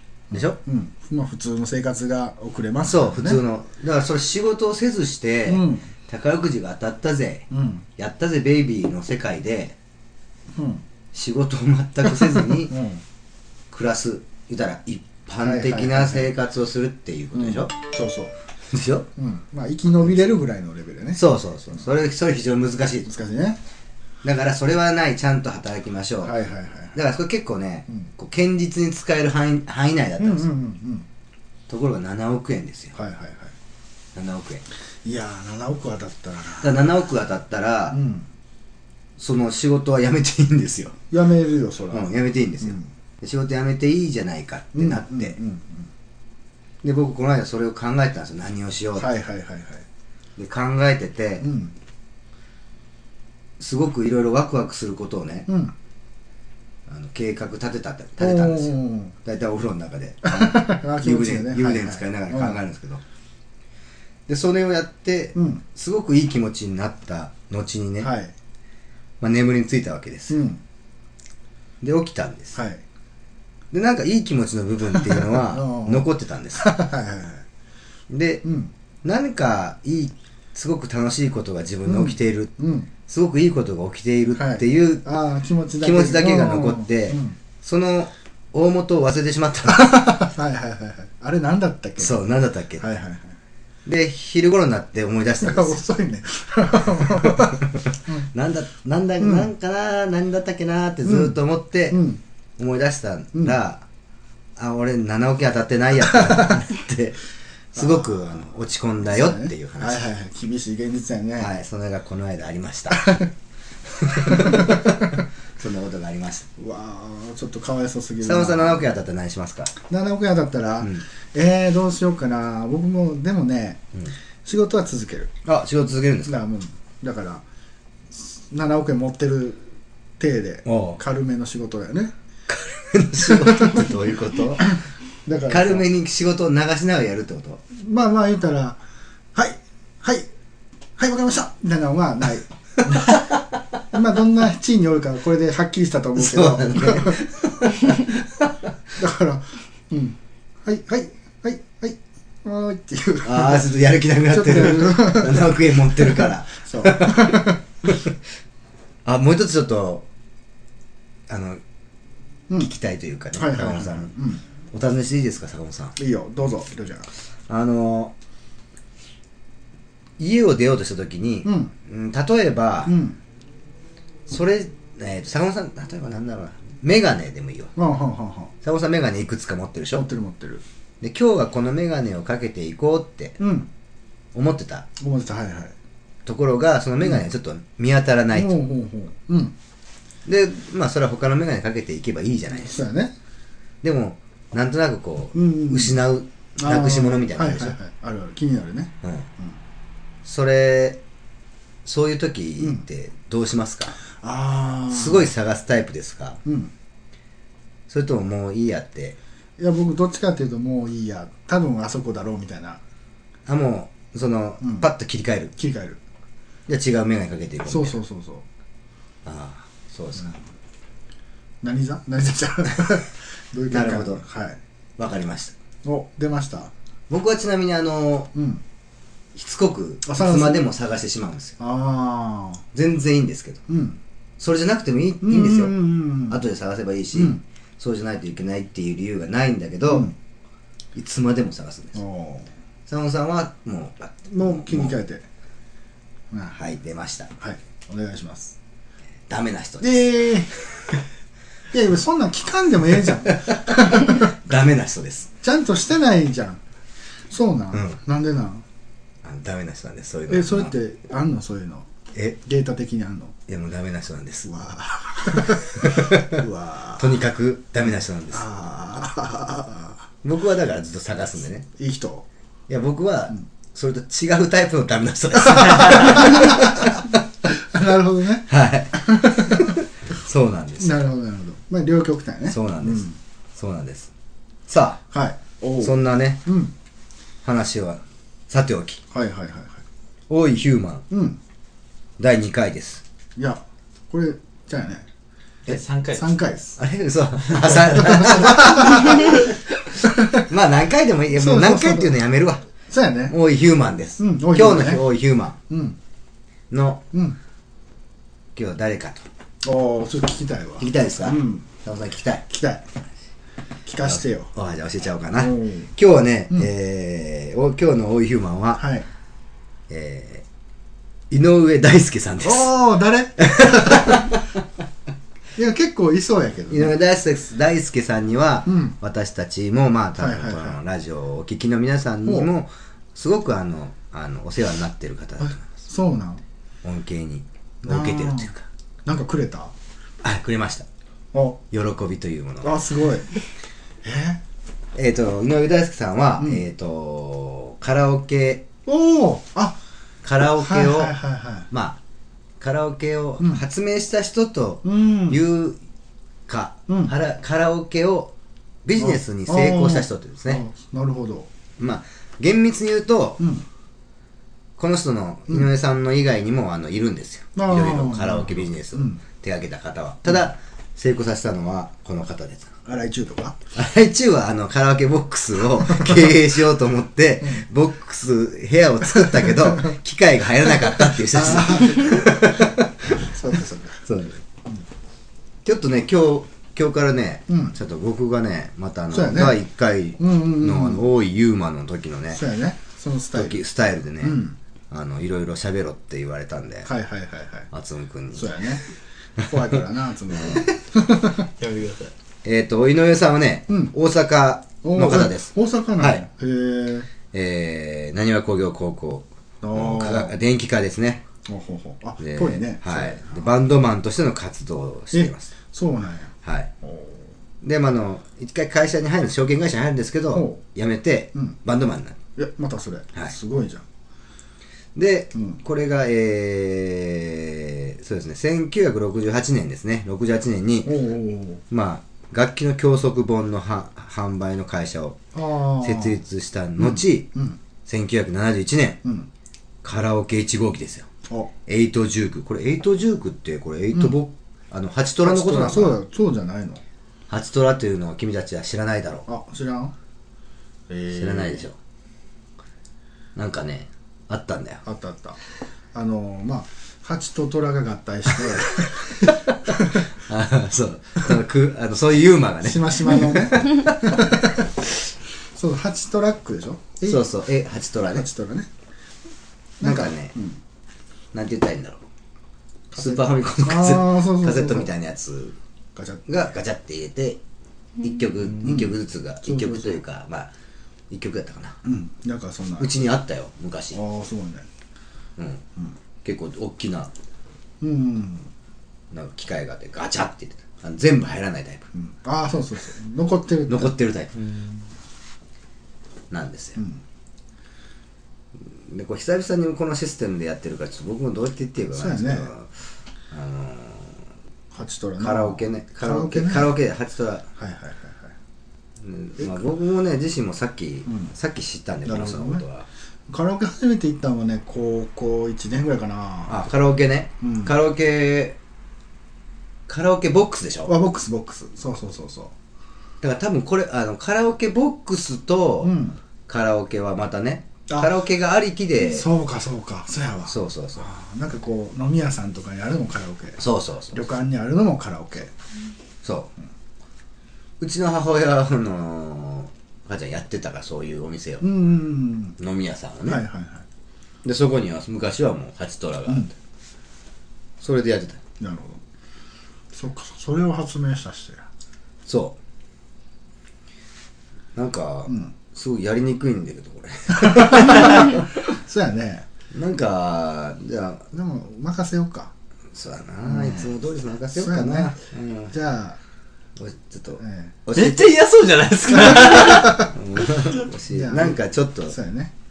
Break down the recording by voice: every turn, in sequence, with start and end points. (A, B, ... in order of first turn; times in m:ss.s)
0:00.3-0:03.4 A
0:00.3-0:00.6 B
0:02.8-0:09.8 B
0:05.5-0:05.9 A
0:07.5-0:07.8 A
0:10.5-0:10.8 A
0:11.1-0:12.8 B
0:12.1-0:13.0 A
0:13.7-0:17.7 B
0:15.4-0:16.3 A
0:17.3-0:18.3 A
0:18.7-0:19.1 B
0:19.2-0:21.2 A
0:21.2-0:23.1 B
0:23.1-0:23.6 A
0:24.2-0:26.4 B
0:26.2-0:27.0 A
0:26.9-0:30.5 B
0:30.2-0:31.1 A
0:31.7-0:33.0 B
0:32.9-0:33.5 A
0:34.2-0:34.6 B
0:35.0-0:36.8 A
0:36.6-0:38.0 B
0:37.9-0:38.3 A
0:39.2-0:41.0 B
0:41.1-0:42.9 A
0:41.9-0:45.4 B
0:44.7-0:45.9 A
0:46.8-0:49.1 B
0:49.0-0:49.8 A
0:50.4-0:51.5 B
0:51.4-0:51.7 A
0:53.6-0:55.5 B
0:55.5-0:55.7 A
0:56.9-1:03.0 B
0:58.2-0:59.1 A
1:00.2-1:02.6 A
1:04.3-1:08.1 B
1:05.4-1:05.6 A
1:08.0-1:08.3 A
1:09.2-1:10.4 B
1:10.3-1:10.6 A
1:11.8-1:12.6 B
1:12.6-1:12.8 A
1:13.7-1:16.7 B
1:15.0-1:16.1 A
1:16.6-1:17.4 A
1:18.1-1:18.4 B
1:18.4-1:18.7 A
1:19.0-1:22.5 B
1:21.8-1:22.9 A
1:23.1-1:25.0 B
1:24.4-1:27.4 A
1:25.8-1:30.2 B
1:29.7-1:32.2 A
1:32.0-1:32.9 B
1:32.8-1:33.4 A
1:33.8-1:35.8 B
1:35.4-1:38.3 A
1:37.1-1:42.0 B
1:39.2-1:39.5 A
1:41.0-1:41.4 A
1:41.9-1:42.2 A
1:42.6-1:43.8 B
1:44.6-1:47.2 B
1:46.1-1:46.6 A
1:47.7-1:50.1 B
1:47.8-1:48.5 A
1:49.0-1:51.5 A
1:51.4-1:53.2 B
1:52.9-1:53.3 A
1:54.0-1:56.5 B
1:54.2-1:55.0 A
1:56.6-1:58.9 A
1:58.2-1:59.8 B
1:59.9-2:03.9 A
2:04.4-2:05.3 A
2:05.4-2:06.3 B
2:06.2-2:07.4 A
2:08.1-2:12.1 A
2:10.7-2:11.0 B
2:12.5-2:14.8 B
2:13.2-2:13.9 A
2:15.2-2:15.8 A
2:15.4-2:17.6 B
2:17.7-2:18.8 A
2:19.3-2:20.3 A
2:21.0-2:23.4 A
2:23.9-2:27.2 A
2:26.2-2:28.5 B
2:29.0-2:33.7 A
2:33.2-2:38.1 B
2:34.3-2:37.6 A
2:39.0-2:40.1 B
2:41.3-2:41.6 B
2:42.6-2:44.1 B
2:43.3-2:44.4 A
2:44.7-2:46.0 B
2:46.0-2:47.1 A
2:47.5-2:48.1 B
2:50.2-2:53.0 B
2:51.4-2:51.7 A
2:52.9-2:53.2 A
2:54.3-2:57.7 B
2:57.8-2:58.5 A
2:58.6-3:00.1 B
2:59.9-3:00.6 A
3:01.0-3:03.4 B
3:03.4-3:03.7 A
3:04.3-3:04.9 B
3:05.0-3:05.8 A
3:06.2-3:08.6 B
3:08.3-3:09.6 A
3:10.2-3:12.8 B
3:12.6-3:13.1 A
3:13.8-3:17.8 B
3:15.3-3:16.0 A
3:16.6-3:19.6 A
3:19.0-3:19.3 B
3:20.2-3:21.0 B
3:21.8-3:24.0 B
3:24.2-3:25.3 A
3:24.9-3:26.4 B
3:26.4-3:26.7 A
3:27.9-3:29.2 B
3:29.6-3:32.8 A
3:33.4-3:35.5 B
3:34.6-3:34.9 A
3:35.6-3:36.0 A
3:36.7-3:38.0 B
3:37.7-3:38.4 A
3:39.2-3:40.4 B
3:41.6-3:44.6 A
3:43.7-3:44.2 B
3:45.0-3:45.6 B
3:45.8-3:46.7 A
3:47.1-3:48.3 B
3:48.3-3:48.6 A
3:49.4-3:51.6 B
3:50.0-3:50.6 A
3:51.6-3:52.6 A
3:52.7-3:53.6 B
3:53.7-3:54.0 A
3:54.4-3:55.7 B
3:55.2-3:56.4 A
3:56.3-4:00.1 B
3:57.1-3:57.4 A
3:59.9-4:00.1 A
4:00.9-4:02.0 B
4:01.9-4:02.5 A
4:02.9-4:05.0 B
4:04.3-4:05.2 A
4:06.3-4:06.6 A
4:06.5-4:07.3 B
4:07.4-4:08.6 A
4:09.3-4:10.8 B
4:09.8-4:10.5 A
4:11.7-4:14.4 A
4:13.2-4:15.3 B
4:15.4-4:16.6 A
4:17.3-4:18.6 A
4:17.7-4:18.0 B
4:19.2-4:20.8 B
4:20.3-4:21.9 A
4:22.4-4:23.4 A
4:23.5-4:24.5 B
4:24.4-4:27.2 A
4:25.3-4:26.4 B
4:27.0-4:28.5 B
4:28.3-4:30.1 A
4:30.2-4:31.7 B
4:31.8-4:32.2 A
4:32.7-4:37.1 B
4:35.4-4:39.8 A
4:38.5-4:41.0 B
4:40.8-4:43.2 A
4:42.5-4:44.1 B
4:44.7-4:45.0 B
4:45.1-4:46.7 A
4:45.8-4:46.4 B
4:47.4-4:49.0 B
4:49.1-4:49.8 A
4:50.3-4:51.1 B
4:51.1-4:51.4 A
4:52.2-4:53.0 B
4:53.4-4:55.1 A
4:55.7-4:56.4 C
4:56.1-4:56.8 A
4:56.8-4:59.6 B
4:57.6-5:00.5 A
5:00.3-5:02.7 B
5:01.3-5:02.2 A
5:02.9-5:03.4 A
5:03.3-5:05.6 B
5:04.2-5:05.0 A
5:05.7-5:06.0 A
5:06.7-5:07.0 B
5:07.1-5:07.4 A
5:08.6-5:09.3 B
5:09.6-5:11.7 A
5:10.8-5:12.4 B
5:12.5-5:12.9 A
5:13.8-5:14.5 A
5:14.1-5:18.9 B
5:15.4-5:15.9 A
5:18.8-5:19.1 A
5:19.9-5:20.4 B
5:21.3-5:22.7 B
5:22.4-5:24.3 A
5:23.4-5:24.4 B
5:25.6-5:26.9 A
5:26.7-5:35.8 B
5:28.7-5:28.9 A
5:30.2-5:30.8 A
5:32.2-5:32.5 A
5:35.4-5:36.4 A
5:36.8-5:38.7 B
5:37.8-5:38.5 A
5:39.0-5:39.7 A
5:40.2-5:40.9 B
5:41.3-5:41.6 A
5:41.7-5:42.8 B
5:42.6-5:43.3 A
5:44.0-5:44.4 A
5:45.0-5:48.7 B
5:48.8-5:49.8 A
5:50.2-5:51.2 B
5:50.6-5:51.7 A
5:51.7-5:52.0 B
5:52.6-5:55.8 B
5:54.8-5:55.4 A
5:56.5-5:58.3 B
5:56.9-5:57.1 A
5:58.8-6:00.6 B
5:59.0-6:01.5 A
6:01.8-6:03.4 B
6:03.4-6:03.7 A
6:04.8-6:12.7 B
6:07.6-6:09.2 A
6:12.8-6:13.6 A
6:13.7-6:23.3 B
6:15.9-6:16.3 A
6:19.1-6:19.9 A
6:21.3-6:24.0 A
6:24.0-6:24.4 B
6:25.6-6:32.4 B
6:27.5-6:27.7 A
6:29.1-6:29.6 A
6:30.2-6:31.1 A
6:32.3-6:33.6 A
6:33.3-6:36.9 B
6:34.2-6:34.6 A
6:36.8-6:37.7 A
6:37.7-6:38.6 B
6:38.3-6:38.8 A
6:39.4-6:41.5 A
6:41.4-6:42.1 C
6:42.4-6:46.2 B
6:44.8-6:47.1 A
6:47.3-6:51.2 B
6:49.6-6:50.3 A
6:51.4-6:53.5 A
6:52.2-6:55.5 B
6:55.1-6:57.3 A
6:56.4-6:56.7 B
6:57.6-7:02.2 B
7:00.3-7:00.6 A
7:02.4-7:03.8 A
7:05.0-7:11.0 B
7:05.3-7:05.6 A
7:10.8-7:11.6 A
7:11.7-7:15.2 B
7:15.3-7:16.2 A
7:15.8-7:17.3 B
7:16.8-7:17.6 A
7:17.8-7:19.0 B
7:19.0-7:19.3 A
7:19.8-7:21.1 B
7:21.7-7:26.0 B
7:25.2-7:26.8 A
7:27.3-7:29.3 B
7:29.3-7:29.9 A
7:30.9-7:31.6 A
7:31.1-7:31.8 B
7:33.4-7:34.8 B
7:34.8-7:35.4 A
7:35.9-7:40.1 A
7:38.6-7:44.3 B
7:42.6-7:44.7 A
7:45.5-7:47.2 A
7:47.0-7:48.3 B
7:48.1-7:48.7 A
7:49.8-7:50.3 B
7:49.8-7:50.6 A
7:51.3-7:52.0 B
7:52.9-7:54.9 A
7:53.0-7:55.6 B
7:55.9-7:56.5 A
7:56.3-7:57.4 B
7:58.0-8:00.5 B
7:58.6-8:00.0 A
8:01.1-8:01.8 B
8:01.8-8:02.9 A
8:02.8-8:04.0 B
8:03.9-8:04.7 A
8:05.4-8:05.6 B
8:06.2-8:07.1 B
8:07.8-8:08.5 A
8:09.1-8:11.9 B
8:11.9-8:13.9 A
8:13.7-8:14.4 B
8:16.3-8:16.8 B
8:18.6-8:22.7 B
8:21.9-8:22.5 A
8:23.3-8:24.3 B
8:24.7-8:26.7 A
8:25.2-8:27.5 B
8:27.6-8:28.3 A
8:29.0-8:32.9 B
8:31.1-8:31.3 A
8:32.0-8:32.6 A
8:33.3-8:36.6 A
8:36.5-8:38.6 B
8:37.4-8:37.7 A
8:39.9-8:40.9 B
8:40.9-8:42.5 A
8:43.2-8:46.0 B
8:45.8-8:46.2 A
8:46.5-8:49.3 B
8:47.9-8:48.1 A
8:49.0-8:53.6 A
8:50.4-8:51.1 B
8:53.6-8:54.3 B
8:54.1-8:55.5 A
8:56.2-8:56.5 B
8:57.8-9:01.7 B
9:01.6-9:02.6 A
9:02.6-9:03.4 B
9:03.3-9:03.8 A
9:04.4-9:06.5 B
9:07.8-9:08.4 B
9:08.6-9:09.0 A
9:09.9-9:11.6 A
9:12.3-9:12.6 B
9:14.7-9:18.4 B
9:15.3-9:15.5 A
9:17.3-9:19.5 A
9:19.7-9:21.3 B
9:21.3-9:22.5 A
9:22.9-9:25.7 B
9:23.4-9:23.9 A
9:24.5-9:25.2 A
9:25.7-9:26.2 A
9:26.8-9:28.3 B
9:27.4-9:27.8 A
9:27.9-9:30.1 C
9:29.2-9:30.1 A
9:29.8-9:32.2 B
9:31.1-9:32.5 A